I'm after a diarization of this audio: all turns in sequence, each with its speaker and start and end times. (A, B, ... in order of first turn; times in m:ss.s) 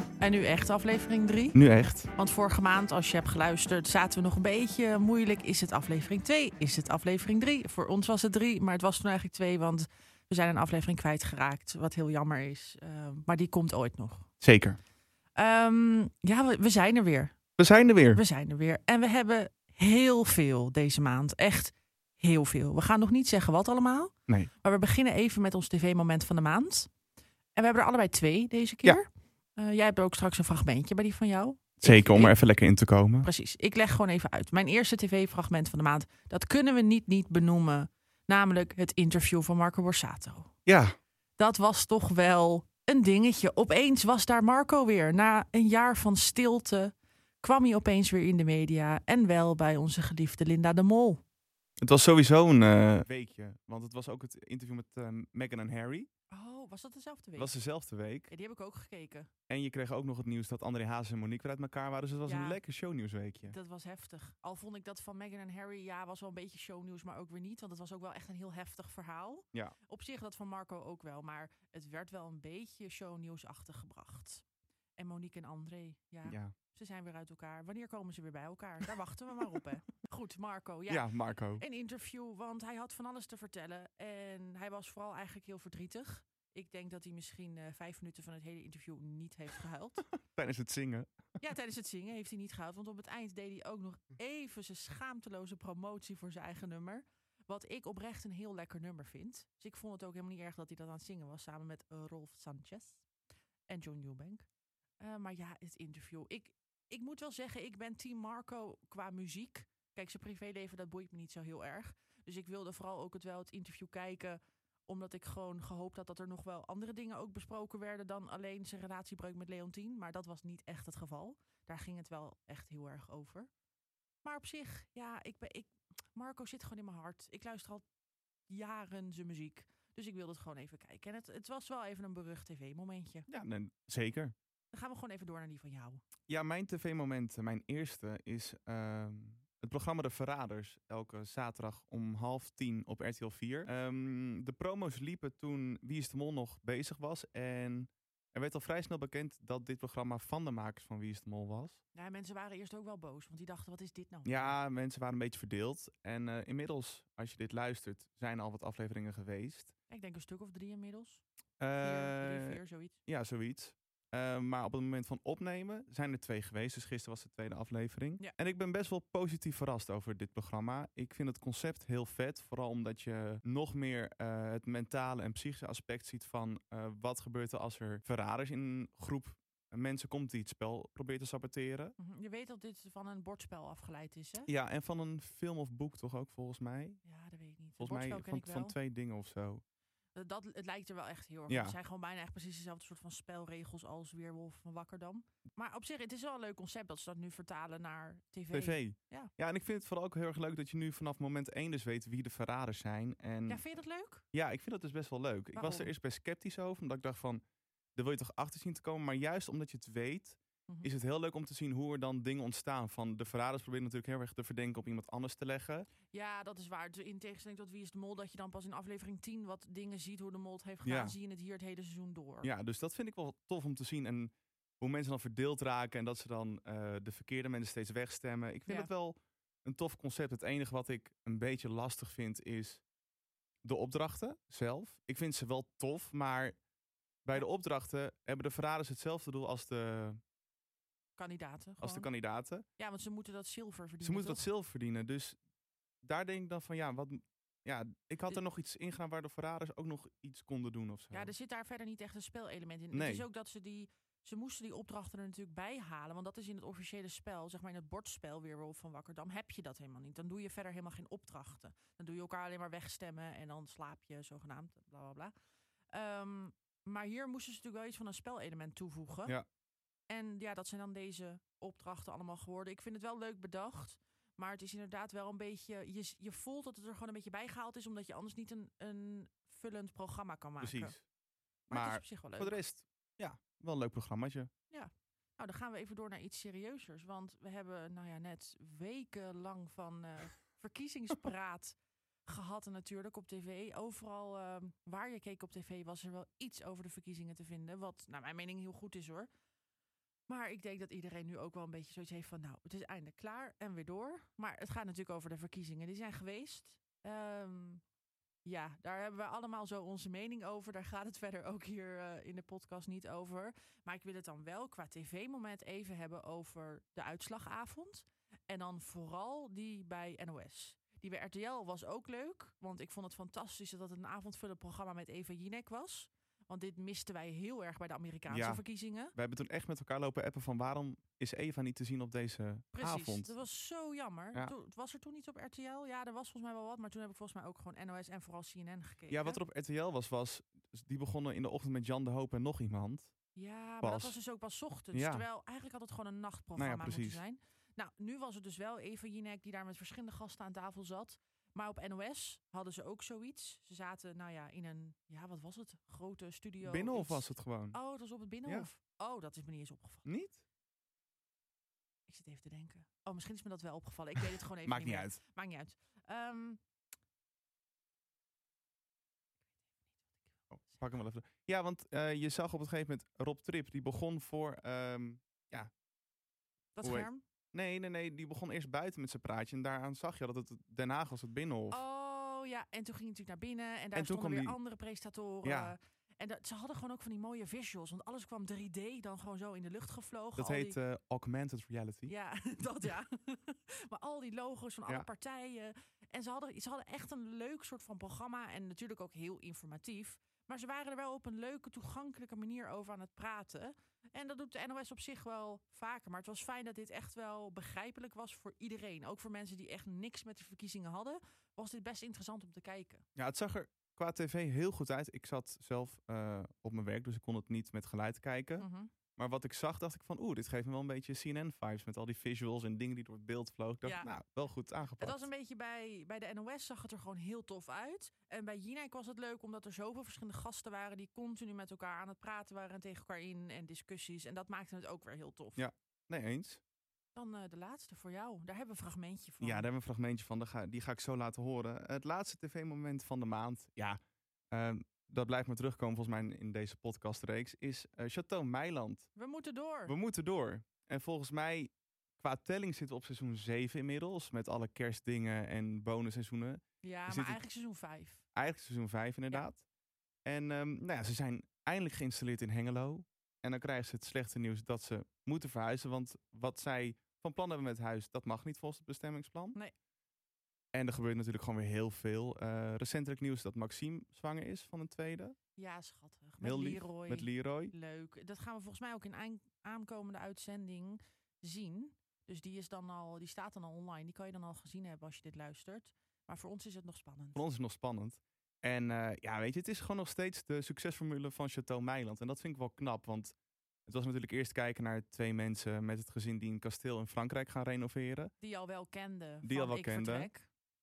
0:00.2-0:01.6 A
0:01.5-0:02.1 B
0:02.2-0:14.2 A
0:14.4-0:14.8 B
0:15.4-0:17.4 A
0:17.6-0:18.2 B
0:18.1-0:26.9 A
0:27.6-0:32.4 A
0:31.8-0:33.3 B
0:33.2-0:40.5 A
0:40.6-0:40.9 B
0:41.4-0:51.2 A
0:51.8-0:56.1 B
0:56.3-0:57.5 A
0:57.4-0:58.3 B
0:58.3-0:59.3 A
0:59.5-1:03.5 B
1:02.3-1:02.6 A
1:03.5-1:14.4 A
1:15.0-1:21.0 A
1:16.2-1:16.5 B
1:20.9-1:21.6 B
1:21.6-1:30.0 A
1:30.2-1:31.1 B
1:31.4-1:43.0 A
1:43.7-1:44.5 A
1:45.0-2:03.5 A
2:04.2-2:07.8 A
2:08.5-2:13.2 A
2:13.3-2:14.3 B
2:14.7-2:16.0 A
2:16.3-2:31.8 B
2:31.9-2:34.6 A
2:34.2-2:39.7 B
2:39.9-2:41.2 A
2:41.6-3:01.9 B
2:41.8-2:43.0 A
3:02.0-3:04.5 A
3:04.5-3:07.0 B
3:07.0-3:08.7 A
3:07.8-3:09.6 B
3:10.1-3:19.3 A
3:11.5-3:11.7 B
3:18.5-3:23.6 B
3:23.5-3:24.2 A
3:24.3-3:27.4 B
3:25.6-3:25.9 A
3:28.0-3:35.9 B
3:36.1-3:42.5 A
3:40.8-3:41.1 B
3:42.4-3:52.8 B
3:53.6-3:56.6 B
3:57.2-4:00.2 B
4:01.2-4:02.1 A
4:01.8-4:02.6 B
4:02.8-4:04.4 A
4:04.0-4:05.4 B
4:06.0-4:11.3 B
4:11.1-4:25.3 A
4:12.9-4:13.2 B
4:25.9-4:29.3 A
4:30.1-4:40.9 A
4:40.6-4:41.0 B
4:41.7-4:42.6 A
4:41.7-4:44.5 B
4:44.7-4:59.3 A
5:00.3-5:07.8 A
5:08.4-5:29.1 A
5:28.3-5:28.6 B
5:29.1-5:33.3 B
5:32.7-5:39.4 A
5:39.1-5:43.1 B
5:43.4-6:00.0 A
5:43.8-5:44.1 B
5:44.9-5:45.2 B
5:46.6-5:47.2 B
5:56.6-5:57.8 B
6:00.0-6:00.4 B
6:02.1-6:06.6 A
6:04.6-6:05.2 B
6:10.4-6:10.8 A
6:10.5-6:15.7 B
6:16.7-6:17.2 A
6:16.8-6:21.8 B
6:21.7-6:30.8 A
6:23.9-6:24.6 B
6:25.4-6:25.7 B
6:30.4-6:32.1 B
6:32.1-6:53.0 A
6:53.2-6:58.6 B
6:58.6-6:58.9 A
6:59.2-7:05.3 B
7:03.8-7:04.1 A
7:05.0-7:15.6 A
7:15.6-7:16.6 B
7:17.1-7:19.7 A
7:19.4-7:24.0 B
7:24.5-7:29.1 B
7:29.2-7:29.9 A
7:29.8-7:37.4 B
7:36.8-7:38.2 A
7:38.3-7:39.6 B
7:40.2-7:49.6 B
7:50.7-7:55.4 B
7:55.6-8:07.4 A
7:56.4-7:57.7 B
8:07.3-8:13.3 B
8:13.9-8:18.3 B
8:18.4-8:20.4 A
8:19.4-8:20.3 B